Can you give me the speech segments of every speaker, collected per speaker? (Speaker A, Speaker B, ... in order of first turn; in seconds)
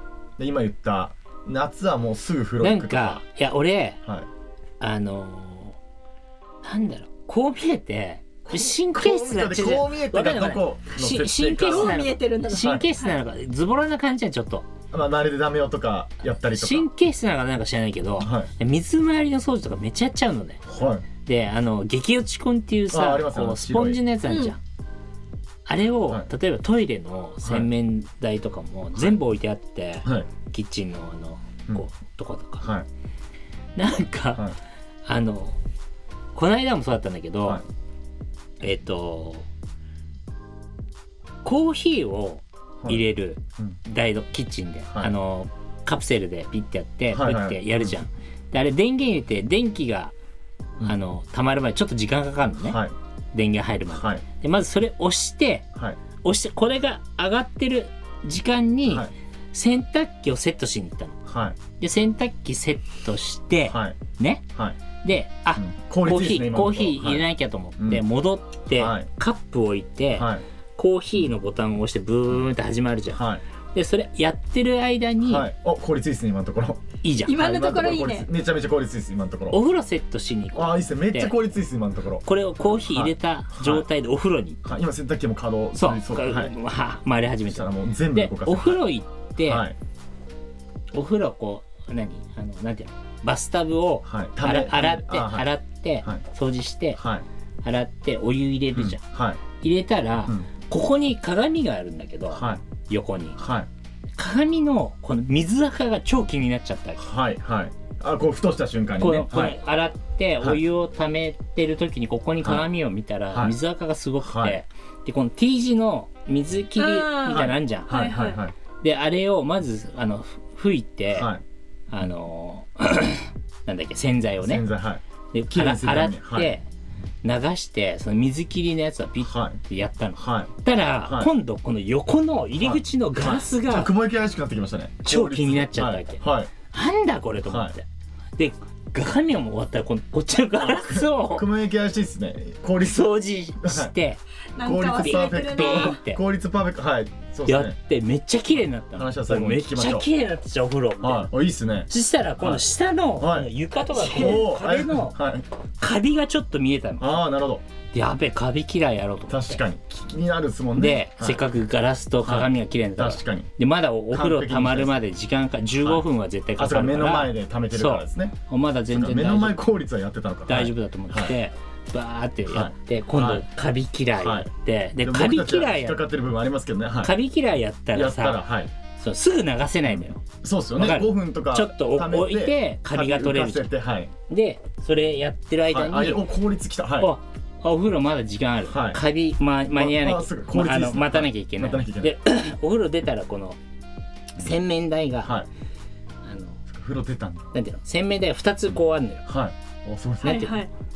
Speaker A: 0.4-3.2, 8.5-12.0, 12.6-12.8, 14.9-16.9, 18.2-18.5, 20.7-21.1, 22.9-24.0, 27.4-27.7, 32.6-32.9, 44.9-45.1, 47.1-48.0, 52.6-52.9, 53.9-54.2, 58.9-59.1, 61.3-61.6, 63.7-64.0, 65.6-67.3, 67.8-68.0, 68.7-69.1, 70.1-70.4, 73.1-73.4, 75.2-79.6, 80.5-83.8, 84.6-86.5, 87.5-88.8, 89.4-89.7, 94.0-95.5, 97.0-97.2, 98.7-99.4, 102.3-102.6, 103.4-103.7, 107.0-109.6, 112.4-112.7, 114.2-114.6, 117.3-118.5, 121.1-121.4, 124.4-126.5, 129.2-129.6, 130.2-130.5, 131.0-131.3, 132.6-136.5, 137.5-137.7, 140.6-143.0, 143.6-143.9, 144.6-147.7, 148.9-150.1, 151.0-152.6, 153.2-155.4, 157.0-157.6, 159.3-161.4, 162.2-163.5, 164.1-164.9, 165.8-166.1, 166.6-168.4, 168.9-171.3, 172.5-173.5, 174.2-174.5, 175.0-177.1, 177.9-178.7, 179.9-184.1, 185.7-187.1, 188.7-189.0, 189.7-192.2, 195.2-195.5, 196.7-197.5, 199.2-200.6
Speaker B: 2.6-4.0, 4.8-5.8, 6.6-14.7, 16.5-20.6, 21.2-24.6, 25.6-32.7, 33.8-34.5, 35.0-35.6, 36.3-37.6, 38.6-39.5, 41.4-50.1, 50.8-52.8, 53.3-55.7, 56.2-61.2, 61.8-64.4, 65.0-73.2, 73.7-75.5, 77.0-77.4, 79.5-81.3, 82.2-84.6, 85.7-89.7, 90.9-97.0, 97.6-99.0, 99.6-103.4, 104.2-107.0, 109.0-117.9, 118.8-121.3, 121.9-124.7, 125.3-126.6, 127.2-133.9, 135.0-137.8, 138.4-141.5, 142.8-144.2, 145.0-146.2, 147.4-151.3, 151.9-155.2, 155.8-157.2, 157.9-159.6, 160.8-169.6, 170.5-176.1, 177.0-180.2, 180.8-183.7, 184.3-186.3, 187.0-193.6, 194.4-195.3, 196.2-196.6, 197.5-199.2
Speaker C: 11.7-13.1, 24.3-24.5, 77.2-78.3, 116.8-118.4, 144.6-146.0, 154.1-154.4, 200.2-200.7